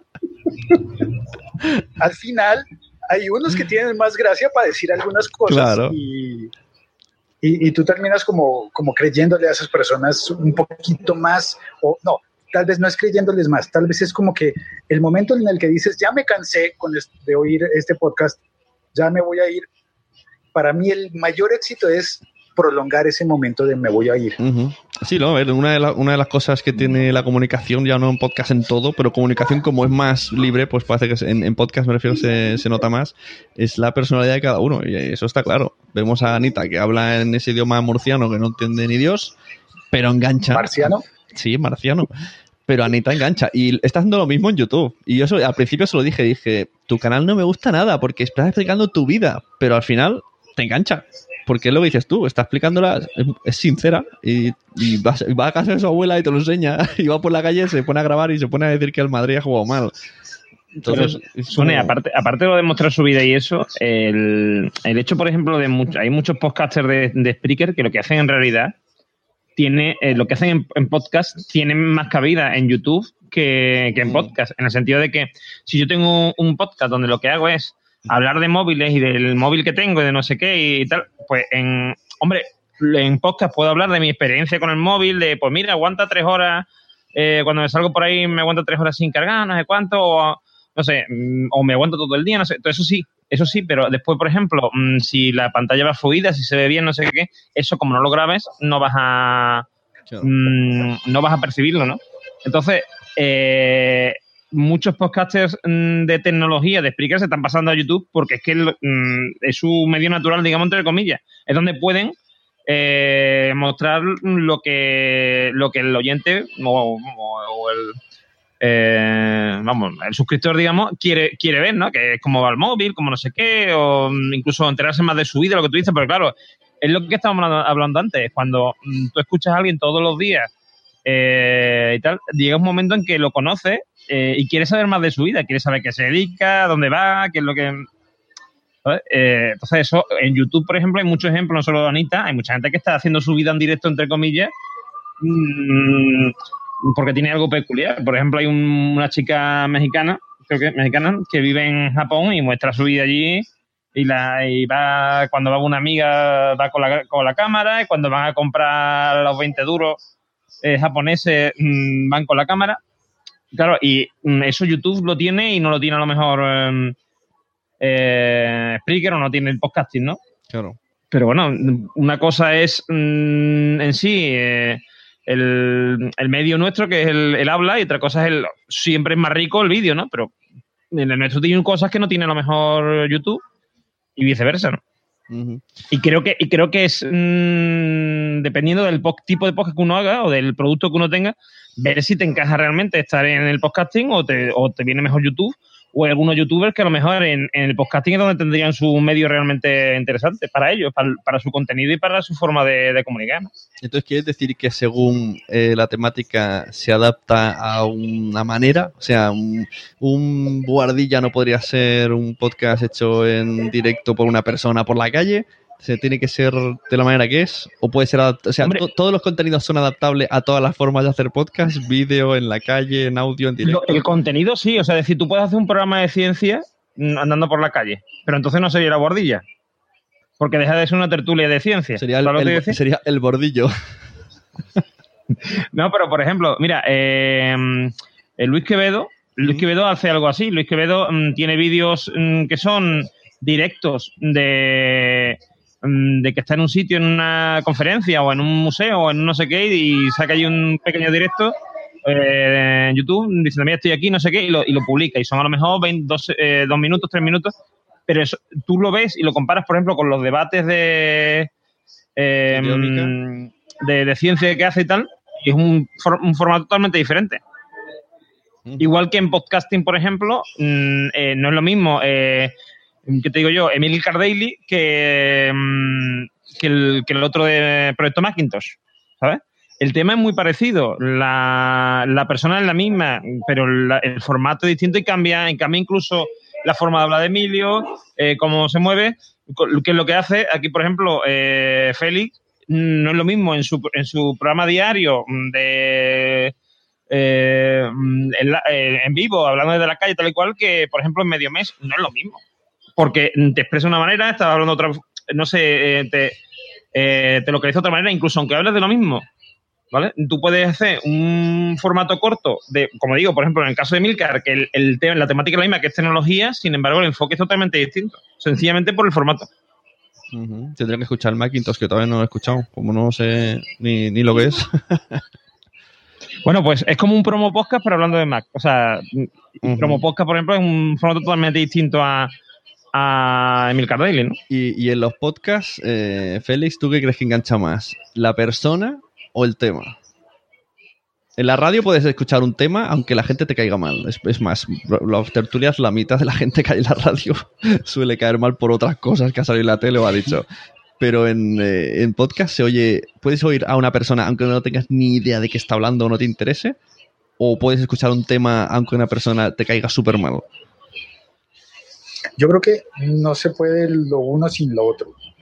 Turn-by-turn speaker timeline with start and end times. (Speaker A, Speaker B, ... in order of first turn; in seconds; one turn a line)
Speaker A: 2.0-6.5
Speaker B: 5.5-6.0
Speaker A: 7.4-18.4
Speaker A: 18.9-19.7
Speaker A: 20.5-24.4
Speaker B: 24.4-39.3
Speaker B: 39.9-42.1
Speaker A: 40.5-41.0
Speaker B: 42.7-59.9
Speaker B: 60.8-62.0
Speaker C: 60.9-68.7
Speaker C: 69.5-99.7
Speaker B: 74.0-74.3
Speaker C: 100.2-112.1
Speaker C: 112.7-118.0
Speaker C: 118.6-130.5
Speaker C: 131.1-137.9
Speaker C: 138.8-144.5
Speaker C: 145.2-160.0
Speaker C: 160.6-162.8
Speaker C: 163.5-166.9
Speaker C: 167.8-170.2
Speaker B: 170.5-170.8
Speaker C: 171.1-180.3
Speaker C: 180.9-183.4
Speaker C: 184.2-184.8
Speaker B: 185.3-185.6
Speaker C: 185.9-203.5
Speaker B: 203.8-224.0
Speaker C: 223.6-229.4
Speaker C: 230.4-232.8
Speaker B: 232.0-233.7
Speaker C: 235.7-257.5
Speaker B: 239.4-239.7
Speaker C: 258.1-261.5
Speaker C: 262.2-267.4
Speaker B: 262.5-263.1
Speaker C: 268.8-272.5
Speaker C: 273.1-296.5
Speaker C: 297.1-302.4
Speaker C: 303.0-306.4
Speaker C: 306.9-309.3
Speaker C: 309.9-319.5
Speaker B: 320.3-325.2
Speaker C: 326.4-332.3
Speaker B: 329.6-330.0
Speaker C: 332.9-334.4
Speaker B: 334.5-339.9
Speaker B: 341.4-350.4
Speaker B: 351.0-356.8
Speaker B: 357.4-360.4
Speaker A: 362.4-365.1